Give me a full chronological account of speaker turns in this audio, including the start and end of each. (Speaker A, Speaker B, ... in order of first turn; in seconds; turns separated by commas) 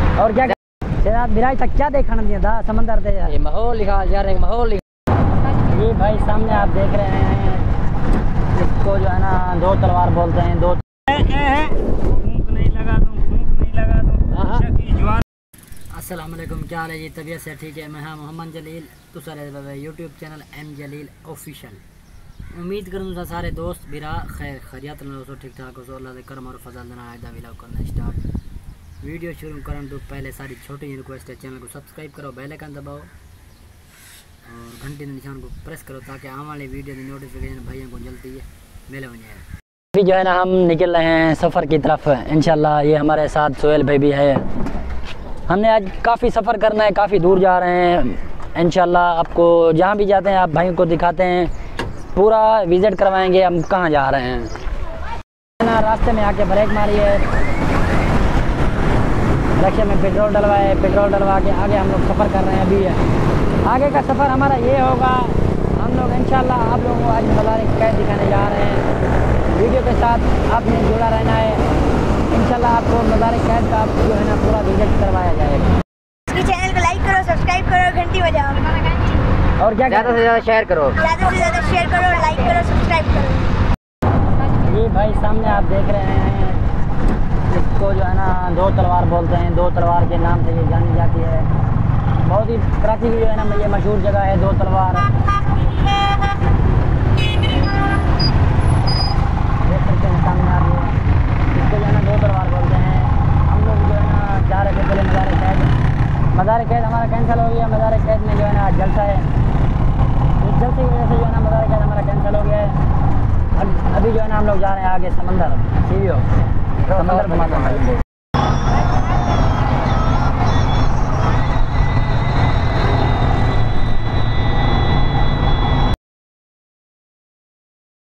Speaker A: 0.2-3.4, Speaker B: 3.3-4.8, Speaker A: 5.7-7.7, Speaker A: 8.5-10.8, Speaker C: 11.1-15.2, Speaker A: 14.3-14.7, Speaker A: 15.9-21.8, Speaker A: 22.5-28.2, Speaker A: 29.0-33.1, Speaker A: 34.5-39.4, Speaker A: 39.9-44.5, Speaker A: 45.5-51.5, Speaker A: 52.1-54.5, Speaker A: 55.6-57.2, Speaker A: 59.6-63.0, Speaker A: 63.6-68.8, Speaker A: 69.5-71.6, Speaker A: 72.3-75.8, Speaker D: 76.3-79.2, Speaker A: 79.6-80.3, Speaker B: 79.9-80.9, Speaker D: 81.0-83.5, Speaker A: 84.6-86.6, Speaker A: 87.5-91.5, Speaker A: 92.1-95.1, Speaker A: 99.6-101.0, Speaker A: 101.5-105.7, Speaker A: 106.3-109.3, Speaker A: 110.4-112.8, Speaker A: 113.5-116.3, Speaker A: 116.9-118.0